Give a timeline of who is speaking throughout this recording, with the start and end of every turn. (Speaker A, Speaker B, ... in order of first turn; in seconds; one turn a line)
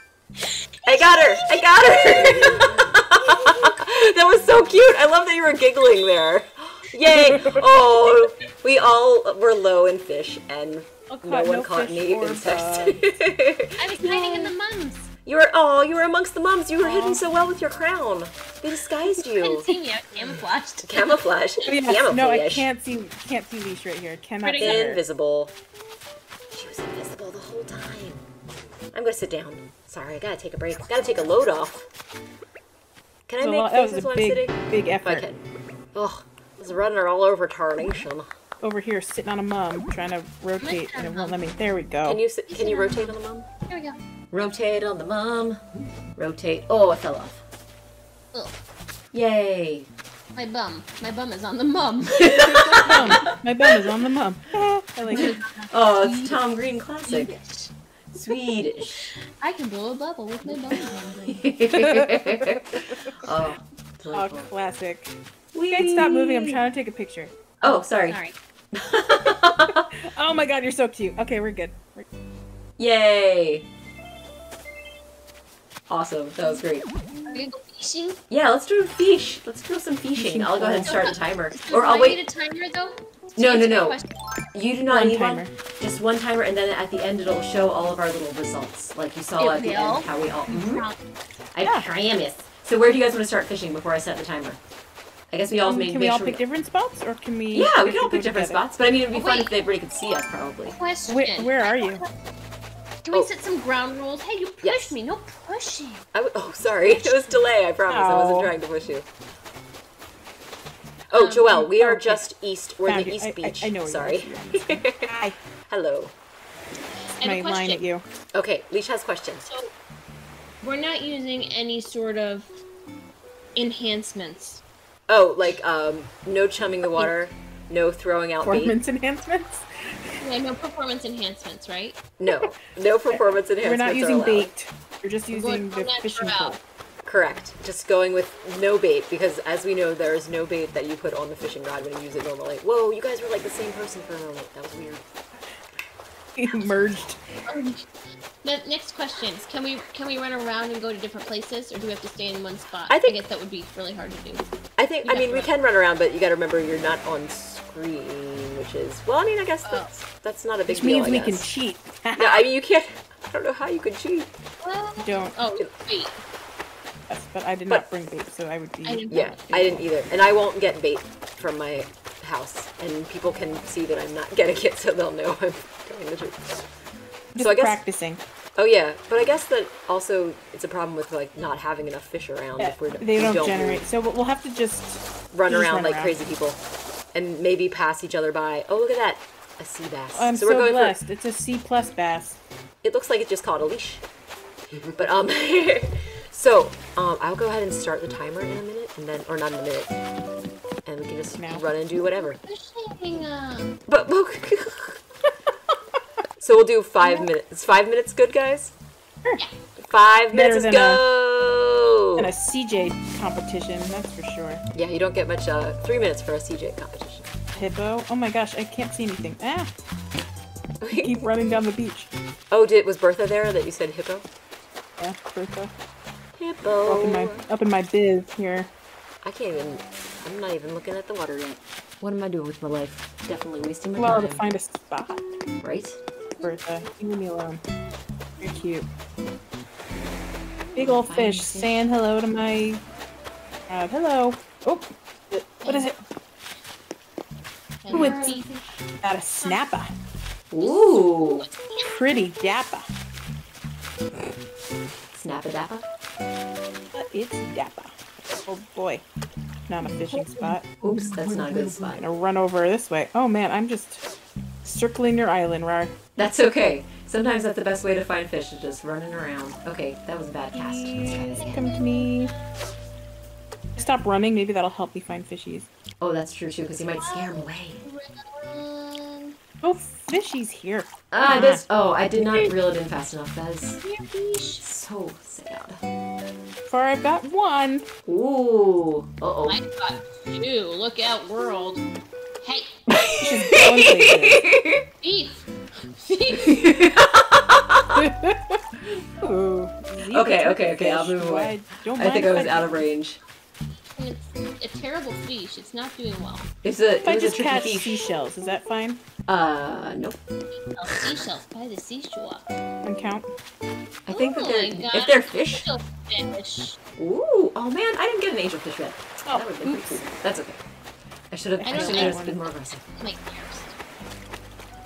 Speaker A: 0.8-2.9
Speaker B: 0.8-14.5
Speaker C: 7.0-7.7
Speaker C: 11.1-13.1
Speaker A: 13.8-15.1
Speaker B: 15.2-19.7
Speaker C: 16.8-17.2
Speaker A: 19.1-21.2
Speaker B: 20.8-22.7
Speaker C: 21.6-25.0
Speaker A: 24.4-24.9
Speaker B: 24.6-25.5
Speaker B: 26.5-28.2
Speaker B: 28.9-31.9
Speaker B: 33.3-35.4
Speaker C: 33.4-35.2
Speaker B: 35.9-38.3
Speaker C: 38.6-42.2
Speaker A: 40.6-41.4
Speaker B: 42.0-43.5
Speaker A: 42.5-43.1
Speaker A: 43.7-44.0
Speaker B: 44.3-45.6
Speaker B: 46.1-47.4
Speaker B: 49.1-49.9
Speaker A: 50.3-53.3
Speaker B: 52.1-53.4
Speaker C: 52.5-55.4
Speaker A: 55.1-56.4
Speaker B: 55.1-57.3
Speaker A: 57.1-57.7
Speaker B: 58.1-59.1
Speaker A: 59.1-61.5
Speaker B: 60.7-64.5
Speaker C: 61.7-63.2
Speaker C: 64.1-65.1
Speaker B: 65.5-66.6
Speaker C: 65.7-67.3
Speaker B: 67.6-68.2
Speaker A: 67.6-68.3
Speaker B: 68.7-69.9
Speaker C: 69.9-72.1
Speaker B: 72.8-73.7
Speaker B: 75.9-76.9
Speaker A: 77.2-78.2
Speaker B: 78.3-82.2
Speaker C: 80.2-81.1
Speaker A: 80.8-84.1
Speaker B: 83.4-84.0
Speaker B: 84.5-90.8
Speaker C: 84.9-85.5
Speaker A: 89.4-91.0
Speaker B: 91.5-94.6
Speaker C: 91.6-91.9
Speaker B: 95.3-96.4
Speaker C: 95.6-98.6
Speaker B: 97.5-100.8
Speaker A: 99.1-99.5
Speaker A: 100.7-102.1
Speaker C: 101.1-102.0
Speaker A: 103.0-106.0
Speaker B: 104.6-104.9
Speaker B: 106.1-109.1
Speaker C: 107.9-108.5
Speaker B: 111.1-115.2
Speaker A: 111.1-111.5
Speaker C: 111.5-112.3
Speaker C: 112.8-115.4
Speaker B: 115.7-116.1
Speaker A: 117.2-117.8
Speaker C: 117.2-118.0
Speaker B: 118.3-119.4
Speaker A: 119.4-119.7
Speaker A: 120.6-122.5
Speaker A: 123.5-124.6
Speaker B: 125.1-128.8
Speaker C: 128.4-129.6
Speaker A: 130.2-132.0
Speaker B: 132.2-134.5
Speaker C: 133.1-136.6
Speaker A: 135.3-136.6
Speaker B: 137.0-145.0
Speaker C: 146.3-147.2
Speaker A: 147.4-147.9
Speaker A: 148.4-154.5
Speaker B: 152.9-153.2
Speaker B: 154.8-161.6
Speaker A: 155.0-155.5
Speaker A: 159.6-159.9
Speaker C: 160.7-162.5
Speaker B: 162.2-164.3
Speaker A: 164.6-166.2
Speaker C: 165.0-165.3
Speaker C: 167.1-169.8
Speaker A: 168.8-169.4
Speaker B: 169.1-176.7
Speaker C: 177.3-178.2
Speaker B: 177.4-177.8
Speaker B: 178.6-183.8
Speaker C: 182.6-186.2
Speaker B: 185.3-186.6
Speaker B: 187.1-191.0
Speaker C: 190.1-192.4
Speaker B: 192.8-194.0
Speaker B: 194.9-200.0
Speaker B: 200.8-202.4
Speaker C: 201.4-201.6
Speaker A: 202.2-203.8
Speaker B: 203.9-205.0
Speaker B: 206.4-208.7
Speaker B: 209.8-212.3
Speaker C: 210.3-211.0
Speaker C: 212.2-214.6
Speaker B: 214.7-217.3
Speaker C: 217.5-219.7
Speaker B: 220.8-221.3
Speaker C: 220.9-222.1
Speaker B: 222.5-224.2
Speaker C: 225.0-225.7
Speaker B: 226.4-227.4
Speaker C: 226.8-228.7
Speaker B: 229.2-234.5
Speaker C: 234.0-235.2
Speaker B: 235.6-236.0
Speaker C: 236.4-237.6
Speaker C: 238.4-238.9
Speaker B: 240.7-241.9
Speaker C: 240.8-242.8
Speaker C: 243.7-246.0
Speaker A: 245.6-245.9
Speaker A: 247.8-248.5
Speaker B: 247.9-248.6
Speaker C: 247.9-248.4
Speaker C: 249.0-249.9
Speaker B: 250.5-251.5
Speaker A: 250.6-251.9
Speaker C: 251.8-252.9
Speaker B: 255.1-255.8
Speaker C: 256.9-259.0
Speaker C: 259.7-264.0
Speaker B: 260.8-262.0
Speaker C: 264.6-266.0
Speaker B: 266.1-271.6
Speaker C: 270.5-272.3
Speaker A: 271.4-272.7
Speaker C: 273.8-275.7
Speaker B: 276.0-277.8
Speaker A: 276.9-279.3
Speaker C: 279.6-281.6
Speaker B: 281.1-283.8
Speaker A: 283.8-284.6
Speaker B: 284.6-285.8
Speaker C: 286.6-287.9
Speaker B: 288.0-289.6
Speaker A: 289.4-291.8
Speaker A: 292.4-292.8
Speaker B: 292.9-294.9
Speaker C: 293.0-294.4
Speaker A: 295.0-296.6
Speaker B: 296.3-298.1
Speaker C: 297.9-302.8
Speaker B: 300.1-303.2
Speaker A: 303.9-306.5
Speaker B: 306.6-308.1
Speaker C: 307.0-309.0
Speaker B: 309.2-310.2
Speaker A: 310.6-312.5
Speaker B: 310.9-311.2
Speaker C: 312.8-313.3
Speaker B: 314.0-315.7
Speaker A: 314.1-316.8
Speaker B: 317.0-320.6
Speaker C: 319.2-320.0
Speaker B: 321.3-322.8
Speaker C: 321.6-322.4
Speaker A: 321.6-322.2
Speaker A: 322.8-323.7